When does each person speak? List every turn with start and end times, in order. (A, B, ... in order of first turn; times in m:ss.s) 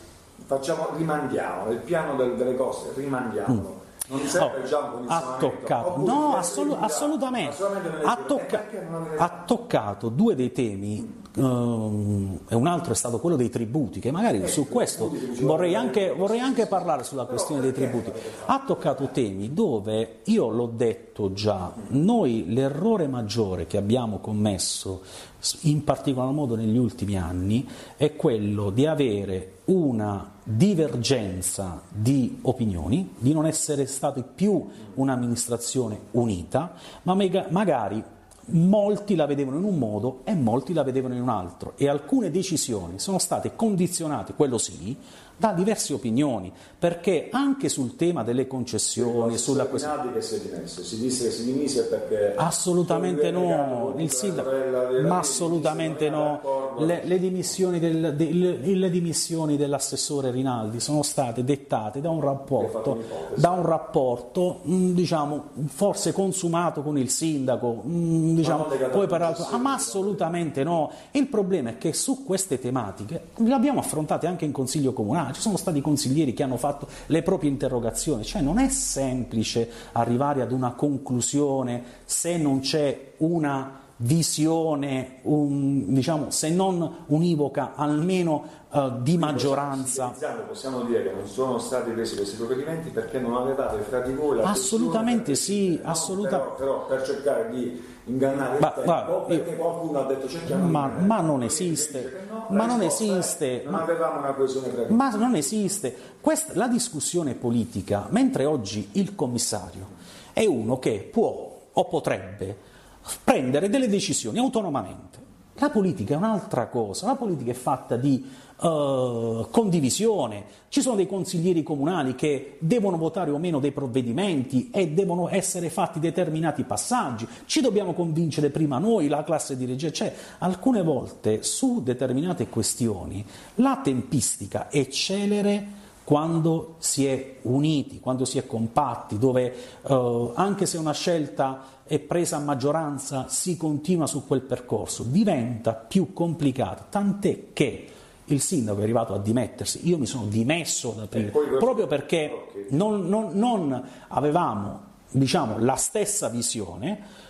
0:00.5-0:09.5 A
0:05.1-0:08.6 B
0:09.2-0:49.9 B
0:14.4-0:18.5 A
0:49.0-0:57.2 A
0:52.4-0:54.5 B
0:55.0-1:30.2 B
1:02.5-1:03.6 A
1:08.4-1:10.4 A
1:29.2-1:45.7 A
1:34.4-1:36.5 B
1:38.6-1:39.4 B
1:40.5-1:43.9 B
1:44.9-1:52.6 B
1:53.2-2:37.0 B
2:31.1-2:32.7 A